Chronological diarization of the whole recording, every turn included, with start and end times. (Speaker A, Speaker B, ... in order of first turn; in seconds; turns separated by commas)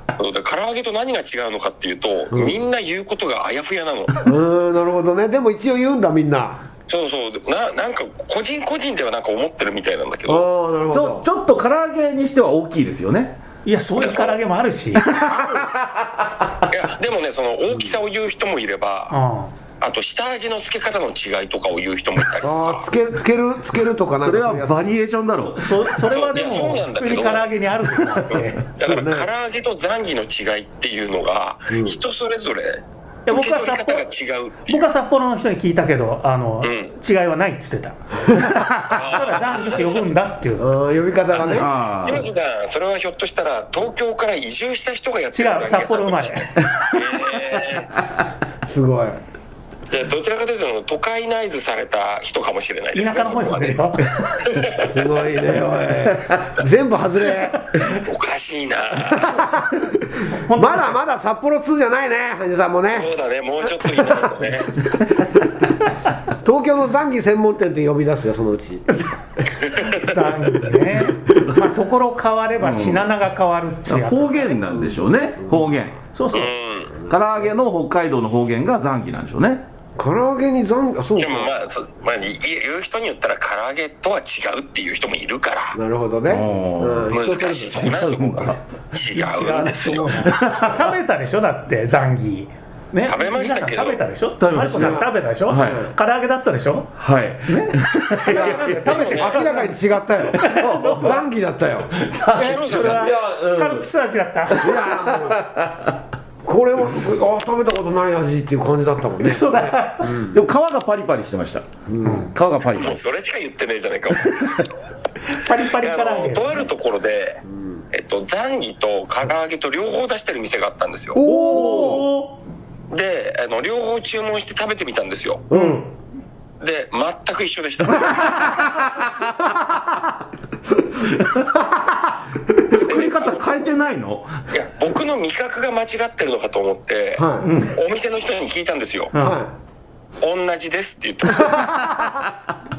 Speaker A: 0.2-4.3, Speaker B: 2.3-2.6, Speaker B: 4.2-6.6, Speaker A: 6.9-10.5, Speaker B: 10.3-11.3, Speaker C: 10.9-13.4, Speaker D: 13.7-15.1, Speaker A: 14.0-14.4, Speaker C: 15.0-16.7, Speaker B: 15.1-15.7, Speaker A: 16.7-19.1, Speaker D: 19.1-19.5, Speaker A: 19.8-23.0, Speaker B: 22.4-24.9, Speaker C: 24.1-25.9, Speaker D: 25.4-28.6, Speaker A: 26.1-27.5, Speaker C: 28.0-28.5, Speaker A: 28.3-34.9, Speaker B: 28.8-29.3, Speaker B: 31.7-32.0, Speaker D: 33.3-34.0, Speaker D: 34.7-40.7, Speaker A: 36.6-36.9, Speaker B: 38.3-38.5, Speaker A: 38.9-39.9, Speaker B: 40.6-41.7, Speaker A: 41.4-47.9, Speaker C: 41.4-42.3, Speaker D: 45.3-46.5, Speaker B: 48.7-49.2, Speaker A: 49.9-55.0, Speaker D: 52.9-54.3, Speaker B: 54.8-57.7, Speaker D: 57.7-58.0, Speaker A: 57.8-59.4, Speaker B: 59.0-63.1, Speaker D: 60.5-61.0, Speaker A: 62.9-64.8, Speaker B: 63.9-64.5, Speaker B: 66.4-68.9, Speaker D: 68.9-74.6, Speaker C: 71.3-71.6, Speaker C: 72.6-73.1, Speaker C: 73.8-76.0, Speaker B: 75.4-75.9, Speaker D: 76.2-76.5, Speaker A: 76.3-76.9, Speaker C: 77.1-79.7, Speaker B: 80.0-81.6, Speaker A: 81.2-85.8, Speaker B: 85.8-87.8, Speaker C: 86.3-87.2, Speaker A: 87.1-90.3, Speaker C: 87.8-88.6, Speaker D: 89.1-96.9, Speaker C: 90.2-91.0, Speaker A: 93.1-94.0, Speaker C: 94.4-95.9, Speaker B: 94.7-95.9, Speaker C: 97.0-99.0, Speaker D: 97.5-99.8, Speaker B: 98.3-101.9, Speaker A: 98.8-99.6, Speaker C: 100.3-101.2, Speaker D: 100.3-101.3, Speaker C: 101.9-103.9, Speaker A: 102.3-103.2, Speaker D: 102.6-104.8, Speaker C: 104.5-106.0, Speaker B: 104.6-105.5, Speaker B: 106.4-110.4, Speaker D: 109.2-110.2, Speaker C: 110.2-113.0, Speaker B: 111.9-112.3, Speaker D: 112.0-112.3, Speaker A: 112.8-114.7, Speaker C: 114.2-114.6, Speaker D: 115.3-116.7, Speaker A: 115.6-121.2, Speaker B: 117.5-117.8, Speaker B: 121.1-122.1, Speaker D: 121.2-122.4, Speaker C: 121.5-122.0, Speaker A: 122.9-125.5, Speaker B: 125.5-125.9, Speaker D: 125.5-125.8, Speaker A: 126.6-128.7, Speaker C: 131.0-131.6, Speaker C: 132.7-134.4, Speaker A: 132.8-133.8, Speaker A: 134.5-139.1, Speaker B: 137.2-137.6, Speaker D: 137.4-137.8, Speaker D: 139.1-139.4, Speaker B: 139.2-139.5, Speaker A: 140.2-141.8, Speaker B: 141.3-142.2